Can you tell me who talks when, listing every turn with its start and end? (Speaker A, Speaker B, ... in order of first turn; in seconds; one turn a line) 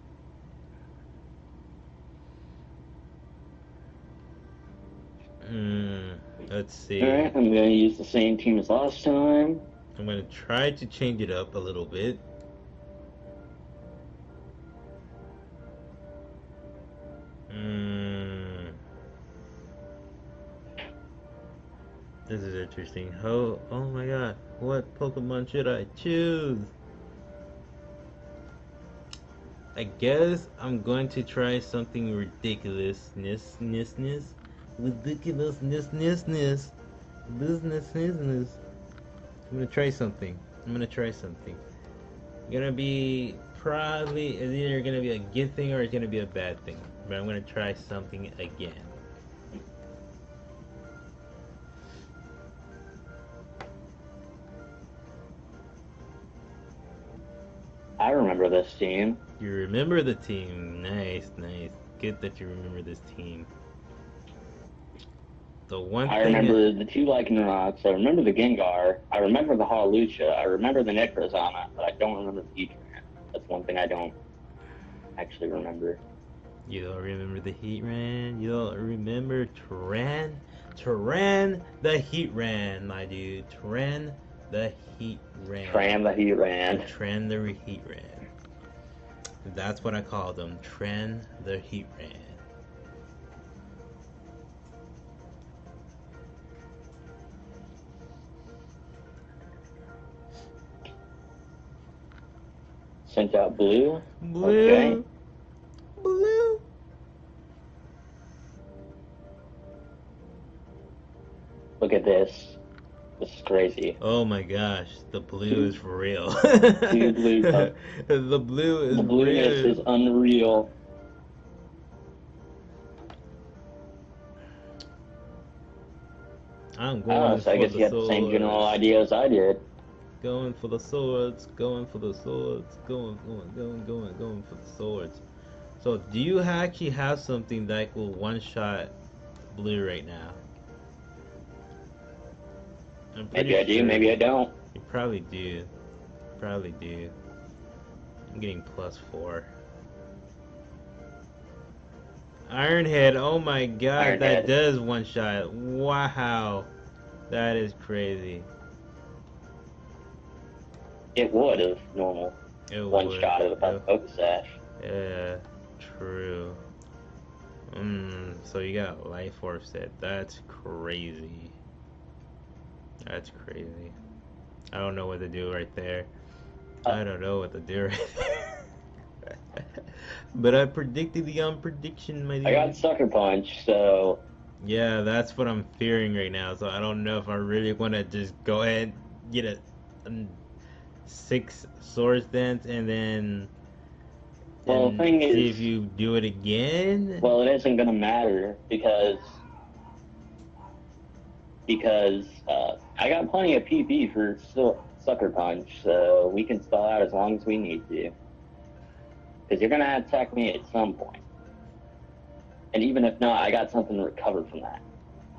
Speaker A: 5.4-7.3
Speaker B: 7.0-9.6
Speaker A: 9.9-12.2
Speaker A: 17.5-18.8
Speaker A: 22.3-26.7
Speaker A: 29.7-36.7
Speaker A: 37.3-38.6
Speaker A: 39.5-41.6
Speaker A: 42.5-48.9
Speaker B: 58.0-59.2
Speaker A: 59.4-63.5
Speaker A: 65.7-66.6
Speaker B: 66.0-74.1
Speaker B: 75.2-76.0
Speaker A: 76.7-86.0
Speaker B: 85.6-86.9
Speaker A: 86.7-88.2
Speaker A: 89.4-92.4
Speaker B: 103.0-105.0
Speaker A: 104.2-105.0
Speaker A: 106.0-106.6
Speaker B: 111.8-112.6
Speaker B: 113.2-114.0
Speaker A: 114.0-119.8
Speaker B: 116.9-117.7
Speaker B: 118.9-120.7
Speaker A: 126.8-128.8
Speaker B: 127.1-129.6
Speaker A: 130.2-135.2
Speaker A: 135.8-138.9
Speaker A: 139.5-140.4
Speaker A: 143.1-144.2
Speaker B: 143.3-144.5
Speaker A: 144.7-145.7
Speaker A: 146.4-147.1
Speaker A: 148.3-149.5
Speaker A: 152.5-156.7
Speaker B: 154.0-154.5
Speaker A: 157.3-158.5
Speaker B: 161.1-162.4
Speaker A: 162.7-163.8
Speaker B: 162.9-164.6
Speaker A: 164.8-166.6
Speaker A: 167.7-171.6
Speaker A: 173.1-173.9
Speaker A: 174.7-176.1
Speaker A: 176.9-178.7
Speaker A: 179.5-182.8
Speaker B: 182.4-184.2
Speaker A: 184.6-190.4
Speaker A: 191.0-193.5
Speaker A: 194.6-197.3
Speaker B: 194.7-195.7
Speaker B: 197.2-199.4
Speaker B: 201.7-208.1
Speaker B: 209.5-211.2
Speaker B: 212.7-214.8